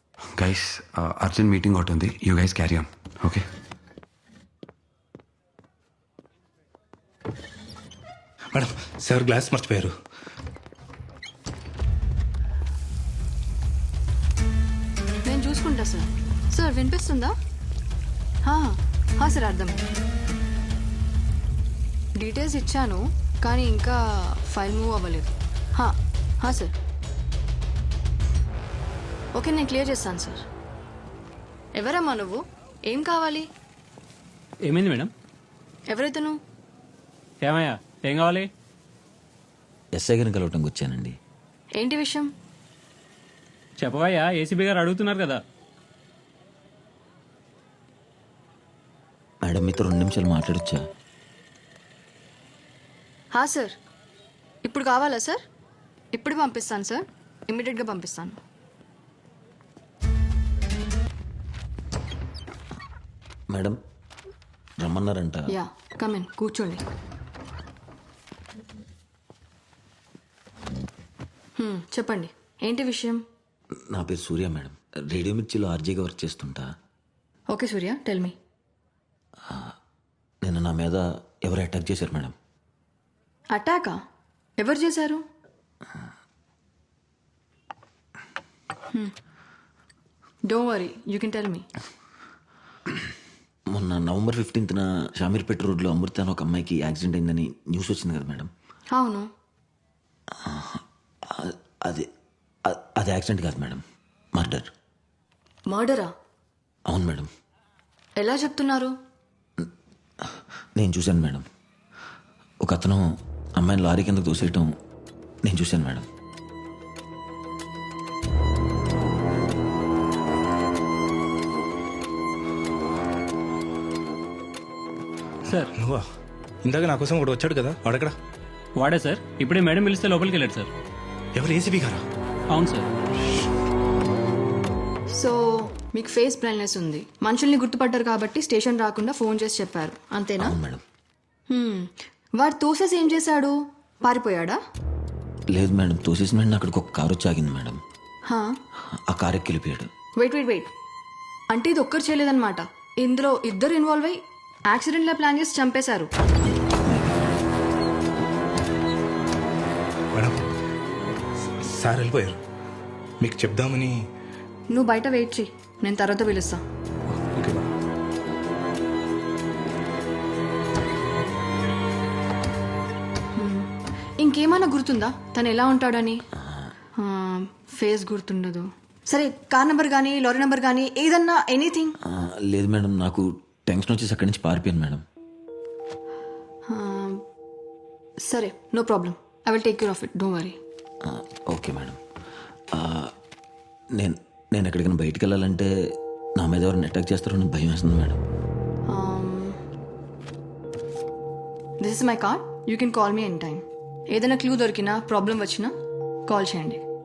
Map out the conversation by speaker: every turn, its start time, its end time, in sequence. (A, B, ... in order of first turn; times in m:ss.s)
0:00.4-0:03.4 A
0:08.5-0:09.9 B
0:15.3-0:17.3 C
0:18.4-0:19.8 C
0:22.2-0:26.7 C
0:29.4-0:30.4 C
0:31.8-0:33.5 C
0:34.6-0:35.1 D
0:35.9-0:36.4 C
0:37.4-0:38.5 D
0:39.9-0:41.2 E
0:41.8-0:42.3 C
0:43.8-0:45.4 D
0:49.4-0:50.8 E
0:53.3-0:53.8 C
0:54.6-0:55.4 C
0:56.1-0:58.4 C
1:03.5-1:03.8 E
1:04.8-1:05.6 E
1:05.5-1:06.8 C
1:11.6-1:13.2 C
1:13.9-1:16.7 E
1:17.5-1:18.4 C
1:20.4-1:22.4 E
1:23.5-1:24.0 C
1:24.6-1:25.2 C
1:30.5-1:31.7 C
1:33.7-1:38.5 E
1:38.9-1:39.3 C
1:40.4-1:42.1 E
1:42.7-1:43.8 E
1:44.4-1:44.7 E
1:45.7-1:46.1 C
1:46.9-1:47.3 E
1:48.2-1:48.9 C
1:50.8-1:51.5 E
1:52.6-1:53.0 E
1:53.6-1:54.7 E
1:55.4-1:56.1 E
2:05.5-2:06.0 B
2:06.6-2:08.2 B
2:08.8-2:10.7 D
2:11.4-2:12.0 B
2:12.5-2:12.9 D
2:15.1-2:20.5 C
2:20.4-2:20.8 E
2:21.5-2:24.6 C
2:25.5-2:27.8 E
2:28.3-2:28.5 C
2:29.1-2:29.9 E
2:30.2-2:30.7 C
2:31.5-2:36.1 C
2:36.9-2:37.3 E
2:40.1-2:40.4 B
2:41.6-2:42.4 B
2:43.2-2:43.9 B
2:44.7-2:46.6 C
2:47.1-2:47.7 B
2:53.4-2:56.2 C
2:56.4-2:56.7 E
2:57.0-3:02.0 C
3:02.0-3:05.0 E
3:06.7-3:07.2 C
3:08.3-3:10.6 C
3:11.0-3:12.0 E
3:12.7-3:13.1 E
3:14.0-3:15.7 E
3:16.4-3:18.2 E
3:18.9-3:19.6 C
3:21.8-3:25.7 C
3:26.3-3:26.8 C